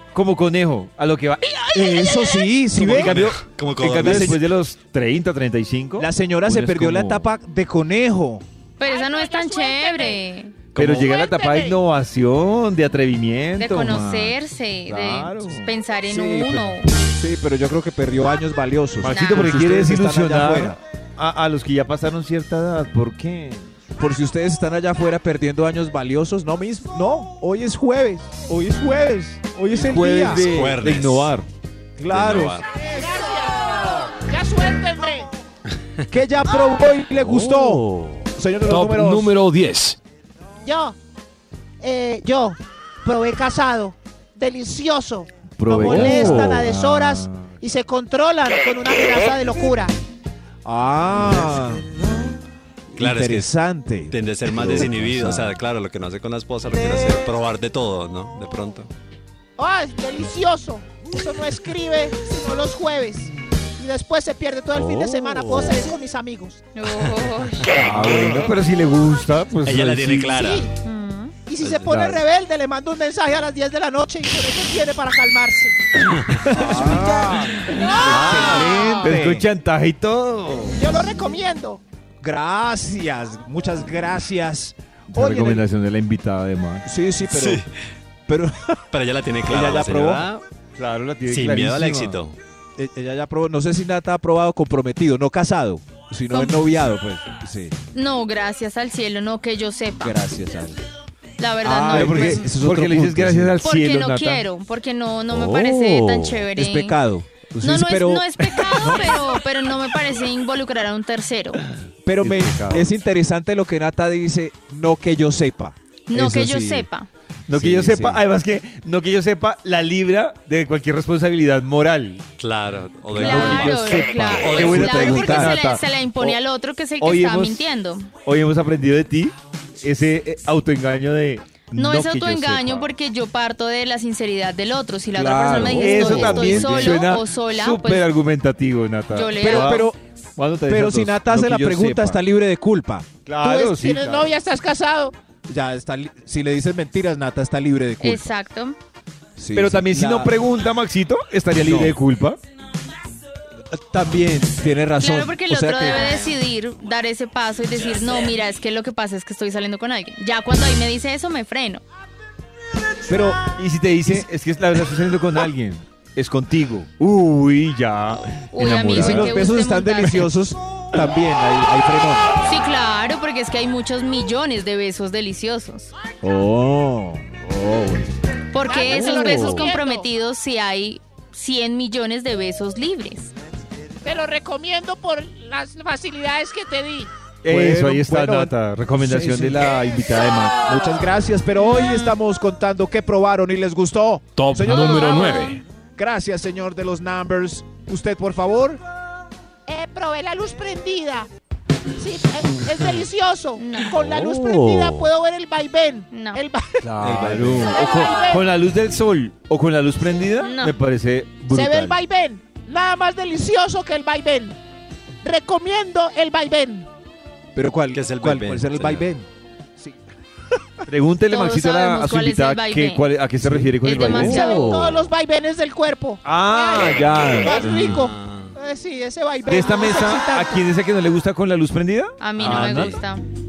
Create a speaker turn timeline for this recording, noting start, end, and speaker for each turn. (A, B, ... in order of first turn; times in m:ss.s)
0:00.1-0:07.2 A
0:01.7-0:03.2 B
0:02.9-0:04.4 C
0:04.0-0:04.4 B
0:06.0-0:08.4 B
0:08.8-0:10.6 D
0:08.8-0:10.2 E
0:10.8-0:14.3 A
0:10.8-0:11.8 E
0:13.6-0:16.9 D
0:13.8-0:14.3 B
0:14.9-0:15.7 A
0:16.1-0:20.8 B
0:19.0-0:23.7 A
0:19.1-0:19.5 D
0:24.0-0:30.5 B
0:29.7-0:31.5 A
0:30.3-0:31.3 C
0:32.0-0:32.6 B
0:32.1-0:32.7 C
0:32.8-0:35.3 E
0:36.1-0:39.4 B
0:38.6-0:40.0 F
0:40.6-0:41.0 E
0:41.8-0:50.0 E
0:45.6-0:46.5 A
0:45.7-0:47.5 B
0:50.6-0:51.9 B
0:52.9-0:55.6 B
0:53.0-0:53.5 C
0:54.1-0:58.9 C
0:59.6-1:06.6 E
1:06.8-1:07.7 D
1:07.8-1:08.5 B
1:07.8-1:10.4 A
1:09.6-1:10.7 C
1:10.3-1:10.7 E
1:10.8-1:11.4 D
1:11.5-1:15.8 E
1:11.8-1:12.2 A
1:16.5-1:19.5 B
1:16.5-1:19.2 E
1:18.0-1:20.8 A
1:20.7-1:21.8 E
1:22.2-1:25.6 B
1:25.1-1:26.9 A
1:26.8-1:27.6 B
1:27.3-1:27.7 C
1:28.3-1:28.8 B
1:28.9-1:30.4 C
1:29.5-1:30.3 B
1:30.8-1:32.2 A
1:31.3-1:32.4 C
1:32.8-1:37.8 B
1:36.3-1:36.6 D
1:37.9-1:40.2 D
1:40.0-1:40.8 B
1:41.4-1:42.5 D
1:41.6-1:43.6 B
1:41.9-1:44.4 A
1:43.6-1:47.0 D
1:46.3-1:49.2 B
1:47.6-1:51.6 D
1:52.0-1:56.9 B
1:52.2-1:52.9 A
1:56.1-1:57.1 D
1:57.5-2:02.2 A
1:57.5-1:58.2 B
2:02.4-2:05.0 C
2:03.1-2:06.4 A
2:03.2-2:08.1 D
2:04.5-2:05.6 B
2:07.0-2:07.6 A
2:08.2-2:12.9 A
2:11.8-2:18.1 D
2:15.1-2:17.1 B
2:15.6-2:22.2 A
2:19.1-2:19.9 D
2:19.4-2:20.0 B
2:20.7-2:23.1 B
2:23.2-2:24.3 A
2:23.4-2:25.2 E
2:25.5-2:28.3 B
2:28.0-2:28.8 D
2:29.4-2:30.4 B
2:29.6-2:32.4 A
2:31.6-2:32.0 B
2:33.7-2:36.0 B
2:35.0-2:41.8 D
2:43.1-2:43.5 B
2:43.6-2:49.5 A
2:48.3-2:50.3 D
2:49.0-2:52.3 B
2:52.4-2:55.9 D
2:56.2-2:58.1 B
2:58.5-3:03.3 D
2:58.6-3:00.1 E
2:59.0-2:59.6 B
3:04.0-3:07.1 E
3:07.4-3:10.6 A
3:07.5-3:09.8 B
3:10.6-3:18.8 B
3:11.6-3:12.1 D
3:14.4-3:15.6 F
3:19.7-3:21.3 E
3:22.0-3:26.8 E
3:23.6-3:23.9 D
3:26.1-3:26.4 D
3:26.8-3:32.0 A
3:27.0-3:27.8 B
3:27.4-3:28.5 E
3:30.4-3:30.8 D
3:31.5-3:34.6 E
3:35.2-3:36.9 E
3:37.6-3:39.3 B
3:37.9-3:39.1 C
3:40.9-3:44.7 A
3:41.3-3:43.1 D
3:43.4-3:44.9 B
3:43.8-3:44.8 D
3:44.1-3:50.7 E
3:46.2-3:47.9 A
3:46.8-3:48.0 B
3:47.7-3:48.5 C
3:49.5-3:53.0 A
3:52.2-3:53.2 D
3:52.4-3:52.9 B
3:52.5-3:52.9 C